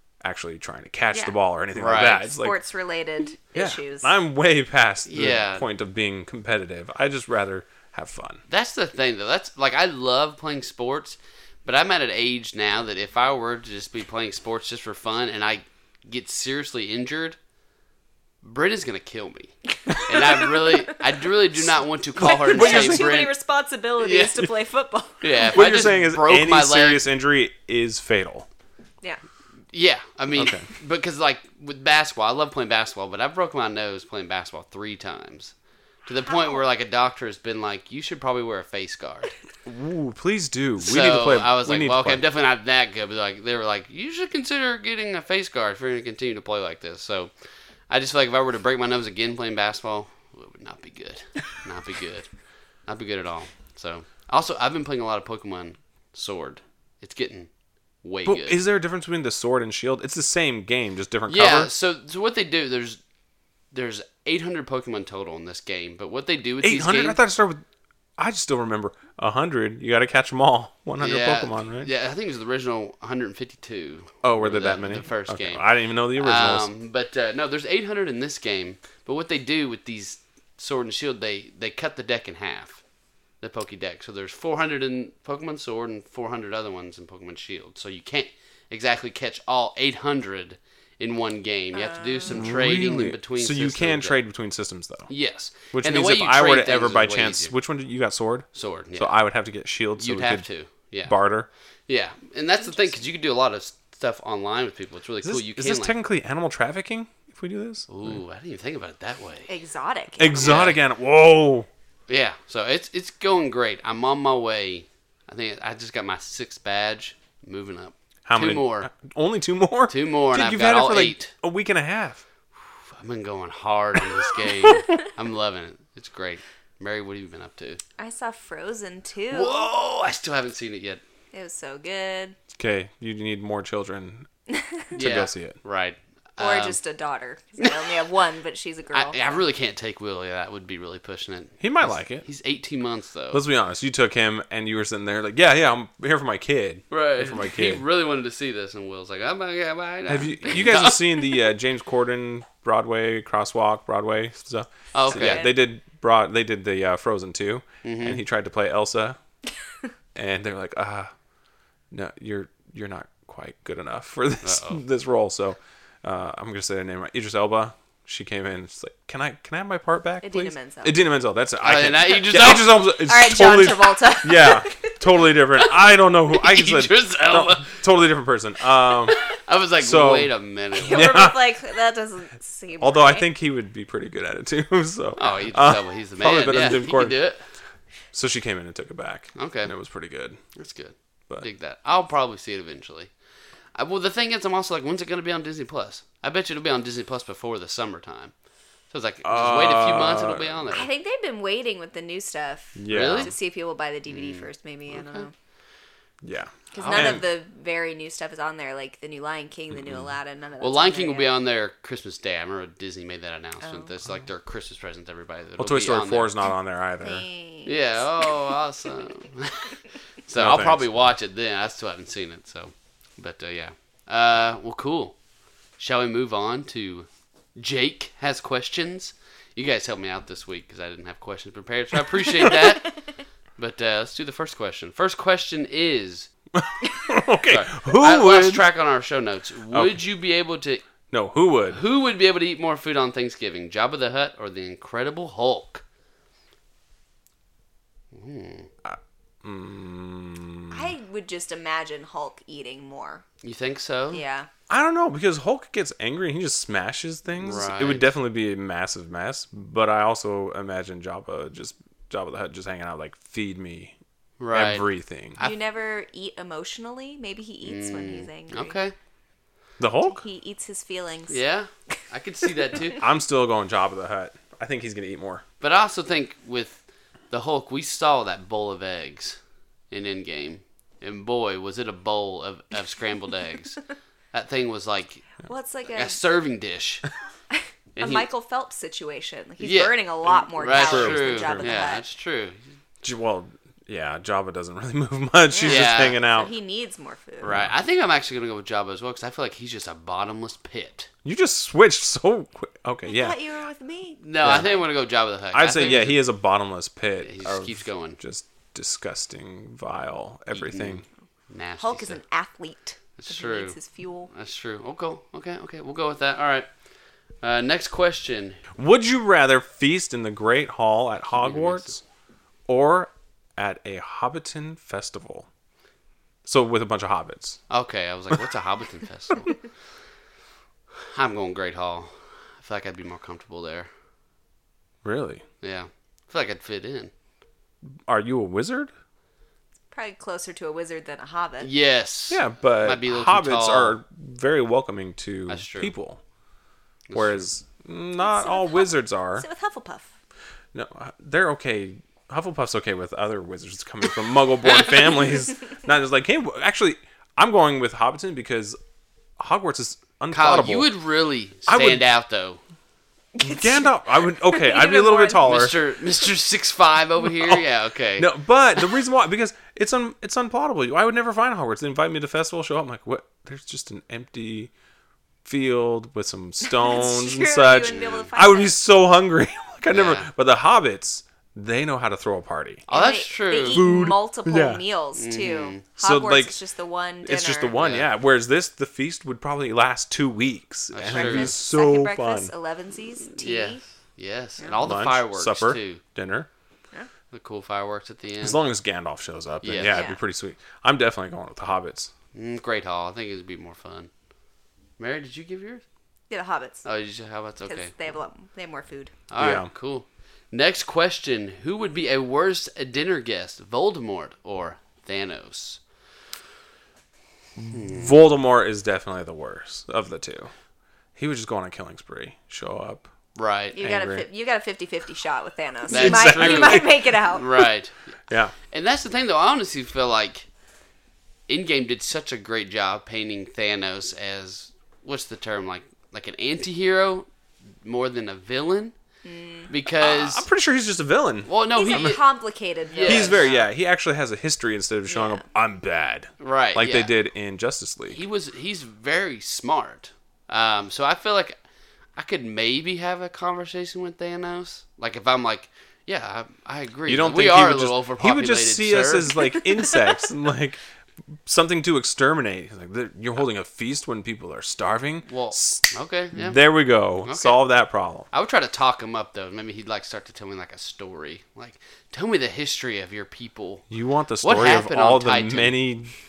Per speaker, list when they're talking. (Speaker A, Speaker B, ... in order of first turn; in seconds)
Speaker A: 0.2-2.6, 3.5-8.4, 19.9-20.3, 22.2-23.2, 25.5-28.5, 30.3-30.7, 39.6-42.2, 58.2-61.7, 66.6-67.6, 68.2-71.9, 74.2-76.7, 92.3-95.1, 95.7-100.5, 101.1-101.5, 105.2-108.2, 110.2-111.7, 118.3-122.2, 124.4-124.8, 132.6-134.3, 134.9-135.6, 141.6-142.2, 143.3-147.8, 150.1-159.2, 160.2-161.1, 161.9-179.2, 179.8-181.4, 182.8-187.2, 188.1-190.4, 199.2-200.7, 202.8-203.3, 206.2-207.2, 209.7-210.1, 215.6-217.3, 220.3-220.9, 236.5-238.6, 239.7-240.0, 241.1-241.8, 248.8-250.9, 254.7-263.9, 264.5-265.4, 269.8-270.2, 273.0-275.4, 290.6-291.8, 293.0-296.5, 297.4-297.7, 301.2-303.4, 304.4-304.7, 305.5-311.1, 318.8-322.0, 322.7-325.5, 326.5-327.6, 335.0-335.4, 338.1-338.9, 342.3-346.2, 347.1-349.5, 350.7-358.8, 359.4-360.9, 361.7-362.0, 363.4-365.7, 367.3-367.6, 368.2-374.7, 375.4-382.8, 383.7-384.8, 386.0-386.6, 387.2-392.5, 394.8-396.5, 398.4-402.1, 409.4-409.7, 417.6-420.5, 421.2-423.1, 423.8-424.3, 425.9-427.0, 428.3-428.5, 439.9-442.2, 443.0-448.2, 457.1-460.8, 461.5-468.3, 473.9-476.1
Speaker B: 1.8-2.2, 5.1-5.7, 8.5-17.4, 18.4-19.5, 20.1-23.4, 24.0-24.5, 25.2-27.0, 29.7-35.5, 36.1-39.3, 40.8-47.3, 47.9-52.3, 52.9-57.5, 58.0-58.6, 61.3-63.0, 63.7-67.2, 71.0-75.6, 76.2-82.8, 83.4-94.2, 95.1-97.5, 98.5-99.2, 100.0-101.2, 101.9-105.9, 107.9-109.5, 110.3-110.8, 112.1-118.9, 119.9-121.3, 123.0-127.8, 129.3-131.0, 134.9-136.8, 138.9-143.4, 146.9-151.5, 154.9-155.5, 157.8-158.2, 164.4-164.8, 171.6-172.8, 176.3-177.8, 179.1-181.3, 185.2-187.4, 189.3-189.7, 190.6-193.1, 193.8-198.3, 198.9-200.9, 202.9-203.3, 204.1-205.3, 206.8-207.2, 210.6-216.4, 217.7-225.2, 225.8-233.0, 233.6-236.3, 237.5-240.9, 241.7-245.8, 248.1-248.7, 253.4-254.2, 257.4-258.1, 264.4-265.5, 267.6-268.9, 271.3-273.0, 275.6-279.4, 279.9-283.8, 284.3-287.1, 288.0-288.3, 289.6-292.6, 295.6-296.2, 297.4-301.1, 304.2-306.2, 307.2-308.2, 310.6-312.2, 313.2-313.8, 314.3-316.7, 317.4-318.6, 321.4-321.9, 327.7-329.6, 331.0-333.9, 335.6-337.1, 341.6-343.9, 345.5-345.9, 347.1-347.5, 354.6-355.3, 360.3-362.6, 365.4-368.3, 377.9-378.3, 379.9-380.3, 382.9-383.9, 385.2-385.8, 387.8-388.1, 390.9-391.6, 393.4-396.0, 397.3-398.6, 399.6-400.0, 402.3-404.1, 405.0-405.8, 406.9-407.9, 409.3-415.8, 417.7-418.1, 423.4-423.8, 425.9-428.1, 428.7-430.5, 431.5-437.3, 437.8-438.9, 439.7-440.4, 441.5-442.2, 442.9-443.5, 446.4-447.1, 448.1-451.6, 452.2-459.5, 465.3-466.6, 467.2-467.6, 468.3-473.9, 474.4-475.8
Speaker C: 2.3-4.1, 19.9-21.0, 22.2-25.5, 91.7-92.3, 102.6-103.0, 109.5-110.6, 128.0-129.7, 131.3-132.3, 136.4-139.4, 155.1-155.5, 170.2-171.0, 173.0-174.9, 180.8-183.3, 200.7-205.3, 206.7-211.3, 213.6-213.9, 217.0-218.5, 250.7-253.2, 254.1-254.5, 265.4-268.8, 270.0-271.4, 285.4-286.2, 287.5-292.0, 295.5-297.5, 303.1-304.9, 311.8-314.3, 339.9-341.7, 348.2-350.1, 363.4-365.7, 376.7-378.8, 382.9-387.8, 391.1-393.8, 399.9-400.2, 406.3-406.9, 407.6-409.1, 423.8-427.6, 439.2-439.7, 441.7-443.7, 445.1-445.4